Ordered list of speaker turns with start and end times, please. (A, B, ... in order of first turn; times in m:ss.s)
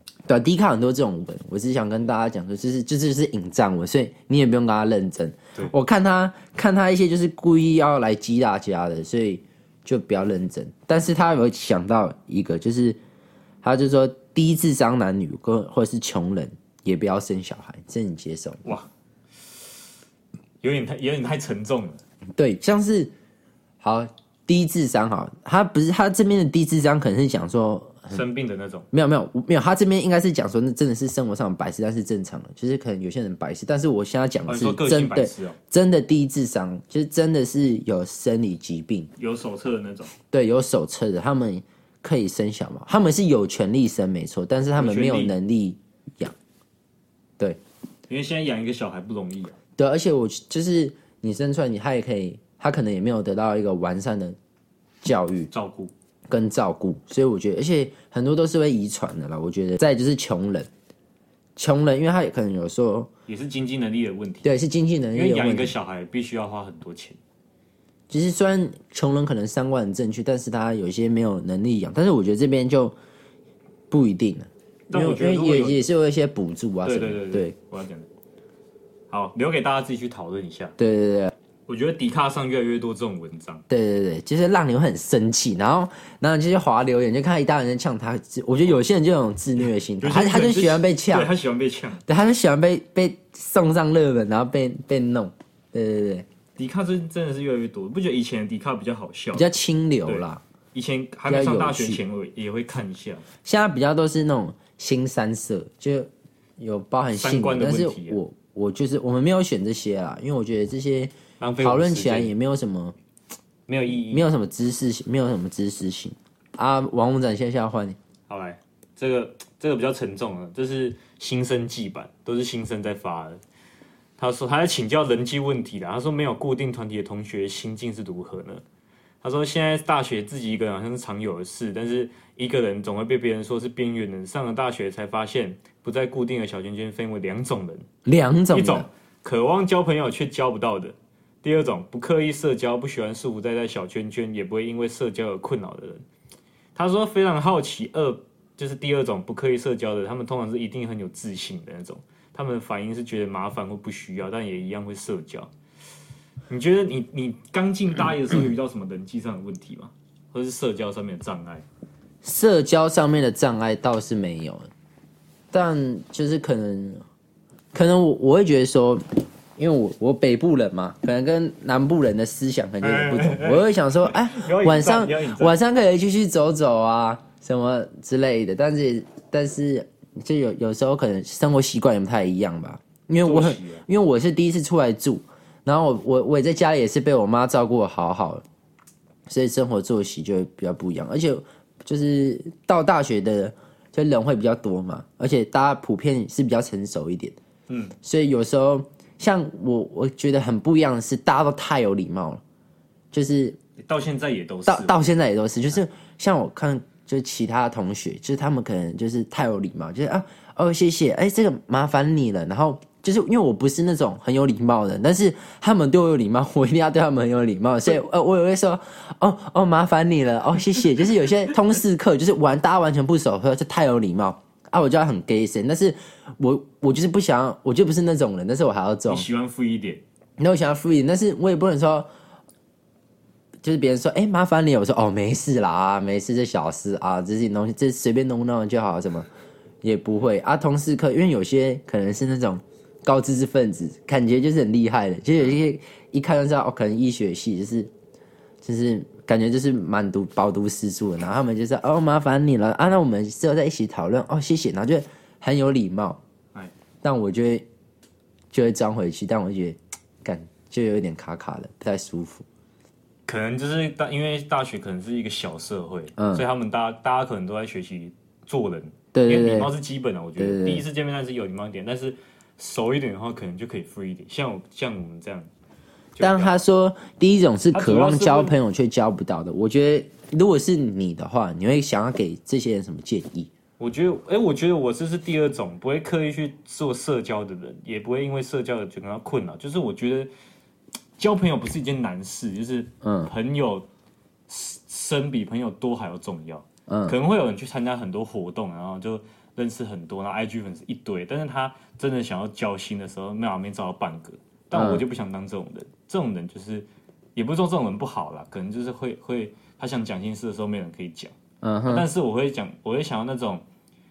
0:00.3-0:13.0 A
0:13.6-0:18.6 A
0:20.6-0:22.0 B
0:22.4-0:23.1 A
0:23.8-0:28.2 A
0:28.1-0:28.9 B
0:28.9-0:39.1 A
0:34.4-0:35.6 B
0:39.2-0:40.1 B
0:40.3-0:46.3 A
0:44.8-0:45.3 B
0:48.1-0:49.6 B
0:49.8-0:54.4 A
0:55.0-0:55.5 A
0:55.5-0:55.9 B
0:56.3-1:00.7 A
1:01.6-1:03.1 A
1:03.3-1:04.5 B
1:04.4-1:05.7 A
1:05.1-1:07.2 B
1:08.1-1:13.0 A
1:13.9-1:17.5 A
1:14.9-1:15.8 B
1:16.8-1:18.1 B
1:19.1-1:20.7 B
1:20.8-1:21.3 A
1:21.7-1:23.6 B
1:23.7-1:31.3 A
1:30.0-1:32.0 B
1:32.1-1:36.2 A
1:36.6-1:39.5 B
1:39.3-1:40.4 A
1:40.0-1:43.2 B
1:41.3-1:42.0 A
1:43.4-1:52.9 A
1:47.1-1:48.2 B
1:51.4-1:52.3 B
1:53.7-1:54.3 B
1:54.1-1:58.0 A
1:58.3-2:03.4 B
2:04.2-2:08.6 B
2:09.2-2:17.9 B
2:18.0-2:18.9 A
2:18.5-2:26.0 B
2:26.7-2:35.5 B
2:36.5-2:41.6 B
2:42.2-2:44.7 A
2:45.5-2:47.0 A
2:47.7-2:49.0 A
2:49.6-3:08.4 A
2:52.8-2:55.6 B
3:03.2-3:03.8 B
3:09.3-3:17.4 A
3:17.7-3:17.9 B
3:18.0-3:22.4 A
3:23.1-3:23.6 A
3:23.8-3:25.1 B
3:24.7-3:49.3 A
3:49.1-3:50.0 B
3:50.4-3:52.1 A
3:53.6-3:59.3 A
3:59.8-4:07.9 A
4:08.6-4:16.2 A
4:17.0-4:17.6 A
4:18.5-4:22.4 A
4:23.3-4:35.5 B
4:26.2-4:26.4 A
4:29.1-4:29.7 A
4:30.4-4:30.8 A
4:36.2-4:36.6 B
4:36.2-4:43.5 A
4:37.7-4:38.6 B
4:43.8-4:50.3 B
4:51.2-4:53.9 B
4:53.0-4:53.3 A
4:54.5-5:11.3 B
4:56.9-4:57.2 A
5:04.7-5:05.0 A
5:11.6-5:12.1 A
5:11.9-5:13.6 B